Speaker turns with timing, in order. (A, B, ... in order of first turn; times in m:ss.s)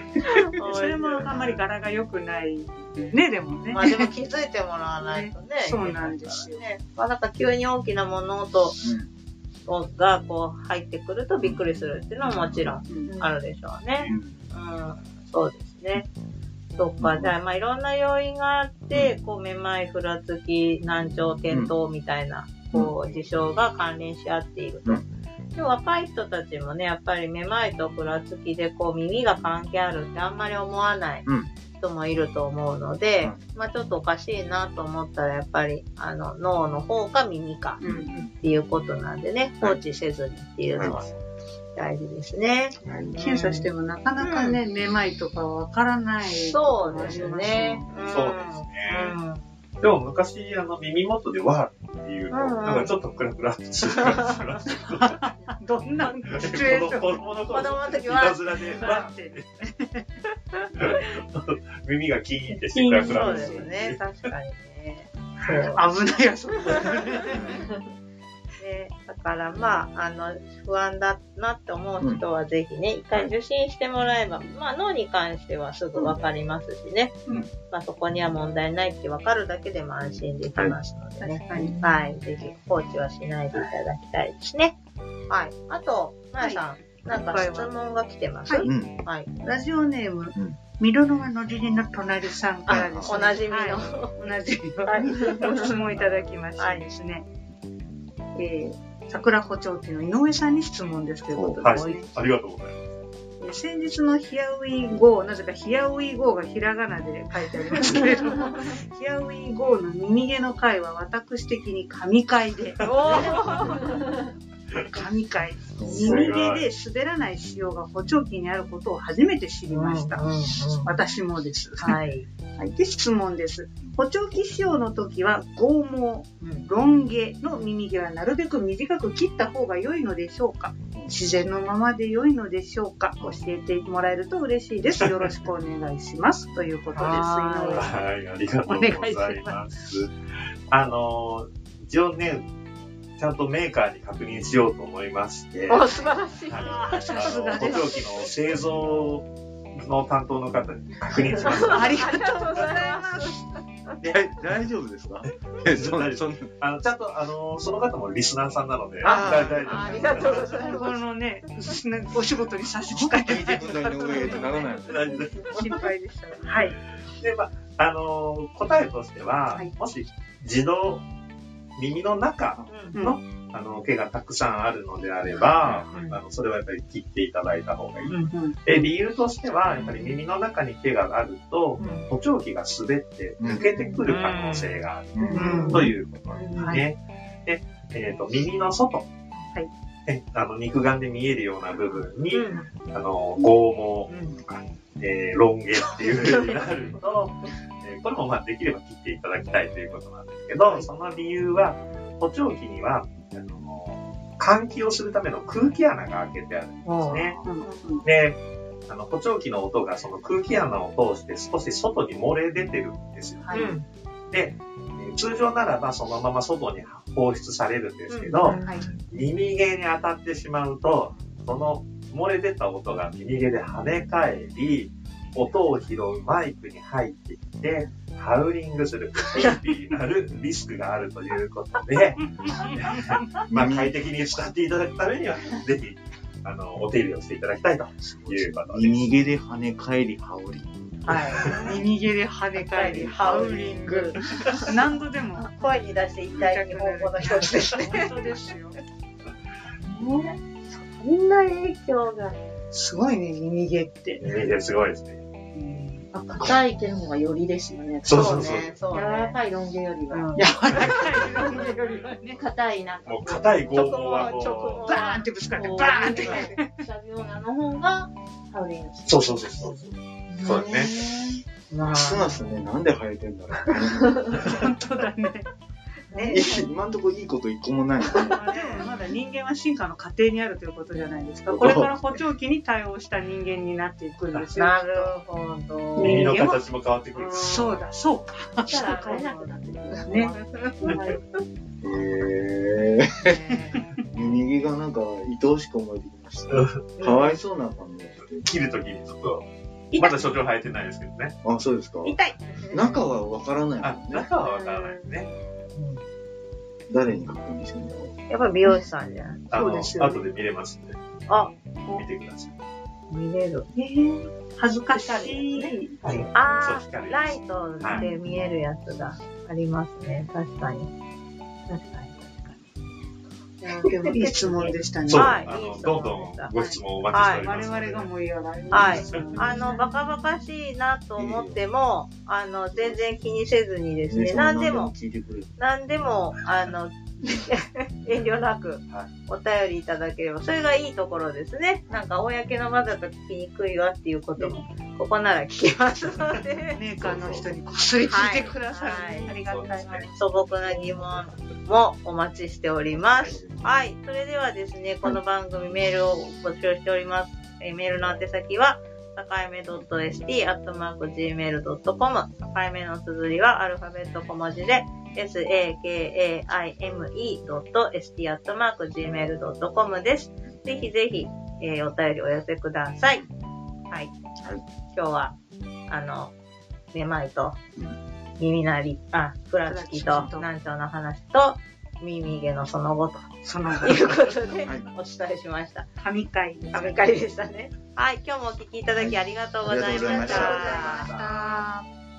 0:00.2-0:01.3 A
0:00.6-0:04.1 B
0:03.7-0:08.8 A
0:05.0-0:06.6 B
0:08.8-0:09.1 C
0:09.6-0:16.1 A
0:12.2-0:12.8 C
0:12.9-0:13.2 B
0:14.0-0:14.4 C
0:16.8-0:25.0 A
0:17.0-0:17.3 C
0:25.6-0:37.8 A
0:37.8-0:38.3 C
0:37.8-0:38.1 B
0:38.3-0:41.1 A
0:41.8-0:44.6 A
0:42.8-0:43.2 C
0:43.2-0:47.9 B
0:46.5-0:49.4 A
0:48.0-0:49.2 D
0:49.8-0:55.2 D
0:52.3-0:52.9 A
0:55.0-0:57.2 B
0:56.2-0:59.4 D
0:57.5-0:58.4 A
0:58.6-1:00.0 B
1:00.8-1:04.3 D
1:02.9-1:03.3 E
1:03.0-1:05.8 A
1:03.3-1:03.6 B
1:05.5-1:07.6 B
1:08.6-1:17.2 A
1:17.7-1:24.8 A
1:21.2-1:22.1 B
1:25.3-1:29.3 A
1:26.4-1:27.7 B
1:28.6-1:28.9 C
1:29.4-1:37.2 B
1:32.7-1:33.2 C
1:32.8-1:34.2 A
1:34.8-1:35.7 A
1:36.6-1:36.8 A
1:38.3-1:42.0 B
1:41.3-1:41.6 C
1:41.6-1:42.8 D
1:43.4-1:54.2 B
1:52.8-1:53.9 A
1:54.9-2:00.3 B
1:55.8-1:56.2 C
1:55.8-1:56.2 A
1:56.0-1:56.7 D
1:59.7-2:00.9 A
2:00.8-2:02.0 B
2:01.8-2:02.3 A
2:02.6-2:17.9 B
2:06.4-2:06.7 A
2:10.9-2:11.2 C
2:16.9-2:17.8 A
2:17.0-2:17.8 E
2:17.7-2:20.1 D
2:18.7-2:19.6 B
2:20.7-2:22.5 D
2:23.2-2:25.9 D
2:25.7-2:27.1 A
2:26.0-2:26.4 E
2:26.4-2:32.0 D
2:26.6-2:28.0 B
2:31.4-2:34.2 A
2:31.4-2:33.4 B
2:34.0-2:36.5 C
2:35.3-2:40.7 D
2:39.0-2:39.6 C
2:39.0-2:41.0 A
2:40.2-2:46.8 B
2:42.9-2:45.6 C
2:44.8-2:45.6 D
2:47.2-2:51.0 D
2:51.8-3:09.1 D
2:52.7-2:53.0 A
2:55.9-2:56.2 A
2:58.1-2:58.3 A
2:58.3-2:58.8 B
3:03.4-3:03.7 C
3:04.0-3:06.7 A
3:05.2-3:05.8 C
3:05.3-3:05.9 B
3:06.5-3:06.8 B
3:10.1-3:27.4 D
3:12.3-3:12.7 A
3:16.1-3:16.7 A
3:26.8-3:27.8 A
3:27.4-3:28.0 B
3:28.0-3:33.7 D
3:33.4-3:33.8 B
3:33.5-3:33.8 A
3:34.3-3:59.2 D
3:38.1-3:38.6 A
3:38.5-3:38.9 B
3:52.4-3:52.7 B
3:53.5-3:53.9 C
3:58.2-4:01.2 C
4:01.0-4:01.8 A
4:01.5-4:05.8 B
4:02.7-4:08.4 A
4:06.3-4:08.8 B
4:09.9-4:12.4 A
4:12.7-4:14.3 B
4:14.2-4:15.2 D
4:15.5-4:16.0 B
4:16.1-4:23.6 E
4:18.0-4:18.8 D
4:18.0-4:19.4 A
4:20.1-4:20.8 A
4:20.4-4:22.4 B
4:23.0-4:24.9 D
4:23.7-4:25.2 A
4:24.8-4:26.8 B
4:25.5-4:29.7 E
4:26.2-4:26.5 A
4:29.1-4:31.0 D
4:30.5-4:31.1 C
4:30.6-4:31.0 E
4:31.7-4:32.3 A
4:31.8-4:34.5 C
4:34.4-4:35.5 B
4:36.1-4:36.7 A
4:36.1-4:36.5 B
4:36.3-4:38.4 C
4:38.1-4:45.1 B
4:38.4-4:38.7 A
4:41.5-4:42.0 C
4:44.6-4:46.4 A
4:46.0-4:46.6 B
4:46.0-4:47.8 D
4:47.2-4:49.2 B
4:48.6-4:51.2 E
4:48.7-4:51.2 A
4:50.1-4:50.3 B
4:51.8-4:53.3 C
4:53.2-4:54.0 B
4:54.1-4:58.5 C
4:56.5-4:56.8 D
4:57.0-4:57.4 A
4:58.2-5:01.3 D
5:01.4-5:02.2 C
5:02.0-5:03.0 A
5:02.7-5:04.3 C
5:03.8-5:05.3 D
5:04.4-5:06.0 A
5:06.9-5:08.1 C
5:08.3-5:09.5 A
5:09.5-5:11.0 D
5:09.5-5:10.3 B
5:11.3-5:12.0 A
5:11.9-5:12.5 D
5:13.1-5:13.7 A
5:13.7-5:16.3 B
5:14.9-5:16.2 E
5:16.0-5:20.9 A
5:16.6-5:18.1 D
5:21.7-5:22.7 A
5:23.6-5:25.4 B
5:23.7-5:26.5 A
5:25.0-5:28.1 D
5:27.1-5:27.5 A
5:27.4-5:29.9 B
5:28.7-5:34.9 A
5:28.9-5:29.3 D
5:31.2-5:31.6 C
5:32.7-5:33.2 C
5:34.1-5:35.5 C
5:35.6-5:46.8 A
5:46.7-5:50.1 B
5:46.9-5:47.5 D
5:48.1-5:49.3 A
5:49.3-5:50.1 D
5:50.1-6:13.2 A
5:52.9-5:53.7 C
6:14.9-6:15.4 A
6:15.9-6:16.3 A
6:16.9-6:17.6 A
6:18.4-6:25.8 A
6:19.7-6:20.5 B
6:23.4-6:24.2 B
6:26.0-6:27.0 B
6:26.7-6:31.2 A
6:28.9-6:31.0 C
6:29.9-6:31.8 B